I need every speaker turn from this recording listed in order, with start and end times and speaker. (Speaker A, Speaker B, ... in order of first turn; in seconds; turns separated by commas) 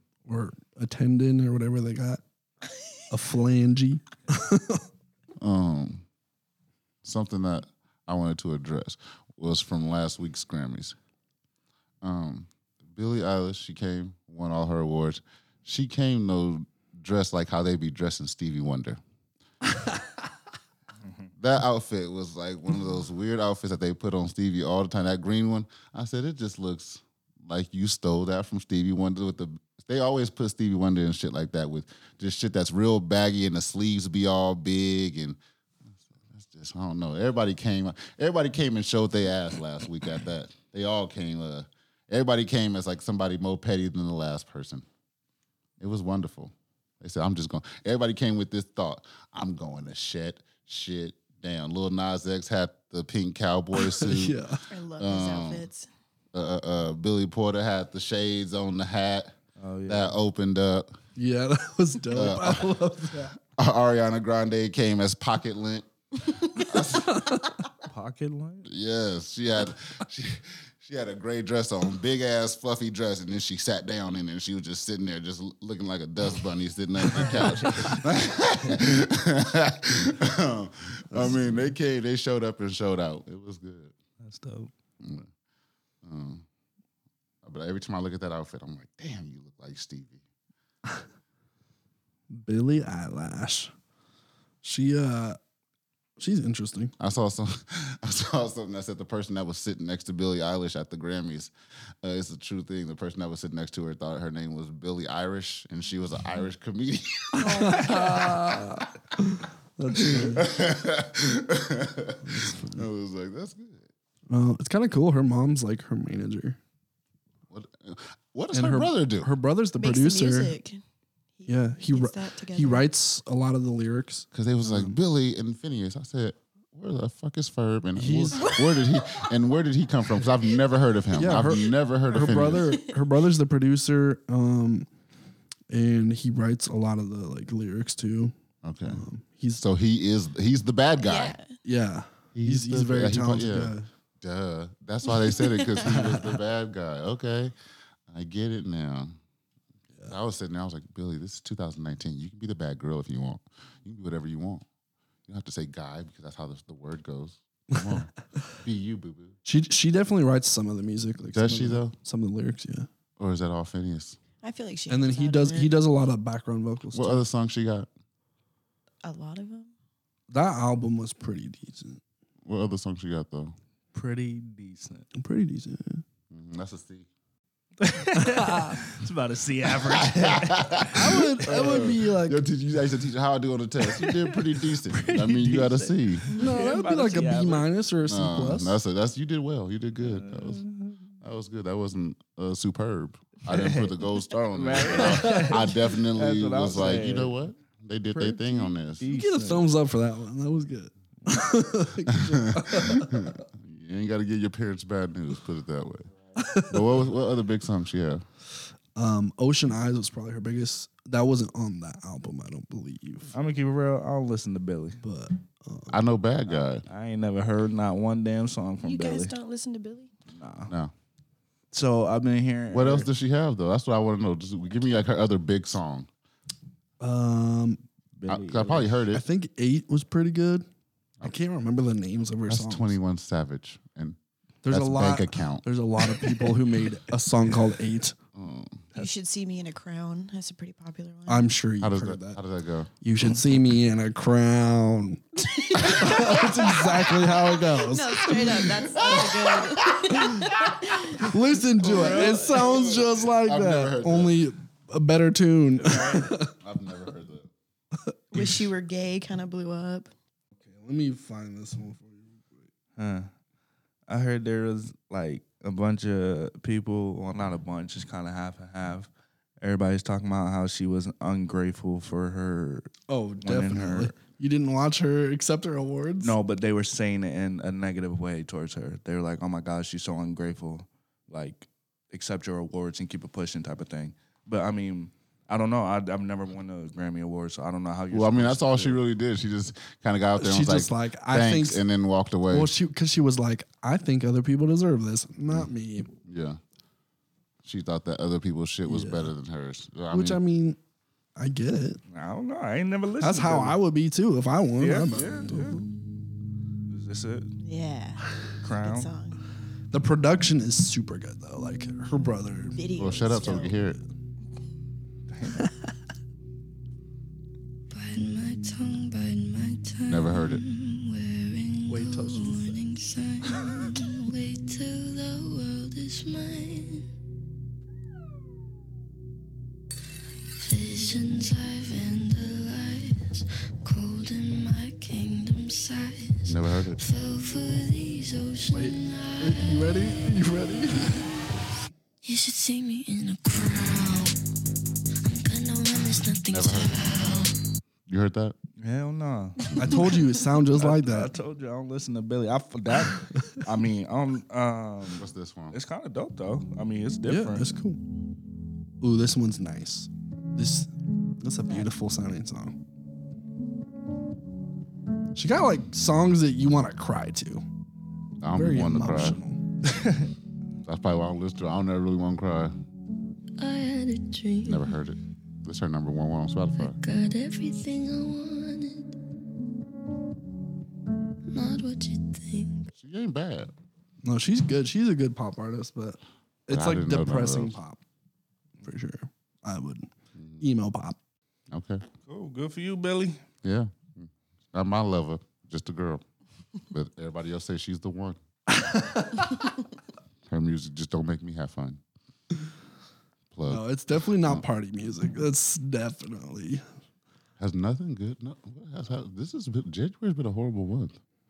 Speaker A: 0.3-2.2, Speaker A: 3.1-4.8, Speaker B: 5.4-6.0, Speaker B: 7.0-11.0, Speaker B: 12.0-19.0, Speaker B: 21.4-35.4, Speaker B: 36.0-44.9, Speaker B: 45.8-55.7, Speaker A: 53.8-54.6, Speaker C: 54.7-55.9, Speaker B: 56.3-61.0, Speaker D: 59.6-60.2, Speaker A: 61.2-63.4, Speaker B: 62.1-62.7, Speaker B: 63.4-65.9, Speaker B: 66.4-67.4, Speaker D: 67.8-68.7, Speaker B: 68.7-84.0, Speaker D: 77.2-77.9, Speaker A: 81.1-81.7, Speaker D: 84.2-84.7, Speaker B: 85.0-85.3, Speaker B: 86.0-86.5, Speaker B: 87.4-90.2, Speaker A: 92.3-93.7, Speaker A: 94.6-95.4, Speaker A: 96.2-96.9, Speaker B: 97.0-101.5, Speaker B: 102.0-107.9, Speaker A: 107.4-110.6, Speaker C: 107.4-108.0, Speaker B: 109.9-113.9, Speaker A: 112.2-112.9, Speaker A: 114.3-116.6, Speaker B: 117.5-119.3, Speaker A: 118.5-120.6, Speaker C: 119.8-120.8, Speaker C: 121.4-122.9, Speaker A: 121.5-125.0, Speaker B: 124.3-132.7, Speaker A: 128.0-128.5, Speaker C: 128.4-129.3, Speaker A: 131.1-134.9, Speaker C: 132.2-132.9, Speaker A: 135.7-138.3, Speaker B: 138.6-139.0, Speaker A: 138.8-139.6, Speaker B: 139.6-141.4, Speaker C: 141.0-141.5, Speaker A: 141.6-143.9, Speaker B: 142.3-147.5, Speaker C: 145.5-146.0, Speaker B: 148.1-149.2, Speaker B: 150.1-154.7, Speaker B: 155.3-159.3, Speaker A: 159.4-162.9, Speaker B: 161.3-161.9, Speaker B: 163.2-164.2, Speaker C: 164.4-165.8, Speaker A: 164.9-167.2, Speaker B: 166.9-167.9, Speaker C: 169.0-169.7, Speaker A: 170.3-172.0, Speaker B: 172.5-173.6, Speaker D: 173.9-175.1, Speaker A: 175.2-176.0, Speaker B: 176.3-177.1, Speaker D: 177.8-181.3, Speaker A: 178.2-178.8, Speaker B: 179.8-186.2, Speaker A: 180.9-182.4, Speaker D: 183.8-187.7, Speaker A: 186.3-188.8, Speaker B: 188.1-190.6, Speaker D: 190.0-191.1, Speaker B: 191.2-199.1, Speaker D: 193.5-197.4, Speaker A: 195.0-195.5, Speaker D: 198.1-199.7, Speaker A: 199.1-203.4, Speaker B: 202.1-206.1, Speaker A: 206.4-206.8, Speaker B: 206.7-208.2, Speaker A: 209.0-213.3, Speaker D: 213.3-215.0, Speaker A: 215.0-216.0, Speaker B: 215.9-216.8, Speaker D: 216.5-219.3, Speaker C: 218.8-220.1, Speaker D: 220.3-220.7, Speaker B: 220.7-220.9, Speaker D: 221.7-223.1, Speaker B: 222.7-226.1, Speaker A: 227.0-227.8, Speaker D: 228.2-228.9, Speaker B: 228.3-229.2, Speaker A: 229.1-230.7, Speaker A: 231.2-233.0, Speaker B: 232.5-235.7, Speaker A: 234.6-238.2, Speaker B: 238.3-238.9, Speaker C: 238.9-241.5, Speaker A: 241.3-242.4, Speaker B: 241.8-242.9, Speaker A: 243.0-248.7, Speaker C: 245.5-251.3, Speaker B: 248.8-251.1, Speaker A: 250.2-250.5, Speaker A: 251.1-256.5, Speaker B: 251.8-254.4, Speaker D: 251.8-252.7, Speaker D: 255.8-256.3, Speaker B: 256.5-257.5, Speaker A: 258.1-258.5, Speaker C: 258.3-260.1, Speaker A: 260.6-262.6, Speaker D: 263.0-263.3, Speaker D: 264.1-269.1, Speaker D: 269.6-272.9, Speaker A: 273.1-276.4, Speaker D: 273.4-274.1, Speaker D: 276.2-289.0, Speaker B: 288.1-292.7, Speaker A: 290.4-291.8, Speaker A: 292.5-296.1, Speaker B: 296.2-296.6, Speaker B: 297.6-300.4, Speaker A: 298.9-299.3, Speaker A: 300.1-300.8, Speaker A: 301.4-302.0, Speaker D: 302.1-303.8, Speaker A: 303.2-305.9, Speaker D: 304.8-305.8, Speaker D: 306.9-307.6, Speaker C: 307.6-309.4, Speaker D: 308.6-309.1, Speaker A: 309.9-312.8, Speaker C: 312.7-313.8, Speaker B: 312.9-314.0, Speaker D: 315.3-315.7, Speaker E: 317.9-327.1, Speaker B: 320.1-320.6, Speaker A: 321.9-322.8, Speaker A: 323.6-324.0, Speaker E: 330.6-340.2, Speaker B: 336.5-337.0, Speaker A: 338.7-341.3, Speaker E: 342.2-344.4, Speaker E: 345.2-347.5, Speaker B: 346.5-347.1, Speaker B: 348.1-348.6, Speaker D: 348.8-350.1, Speaker A: 349.8-351.4, Speaker D: 350.8-357.8, Speaker B: 355.2-355.8, Speaker A: 357.3-358.0, Speaker A: 359.0-362.8, Speaker A: 365.4-367.6, Speaker B: 368.4-369.4, Speaker A: 368.5-369.7, Speaker B: 370.8-372.8, Speaker E: 373.6-374.9, Speaker B: 374.7-377.0, Speaker E: 376.8-379.1, Speaker E: 381.5-382.9, Speaker B: 382.9-383.7, Speaker A: 384.2-388.0, Speaker B: 386.7-387.8, Speaker A: 388.8-391.2, Speaker B: 390.4-390.7, Speaker B: 391.7-392.1, Speaker D: 392.3-393.4, Speaker B: 393.6-396.2, Speaker B: 396.9-398.4, Speaker A: 398.7-399.7, Speaker B: 400.5-402.0, Speaker B: 403.5-404.6, Speaker A: 403.7-406.8, Speaker B: 407.6-411.2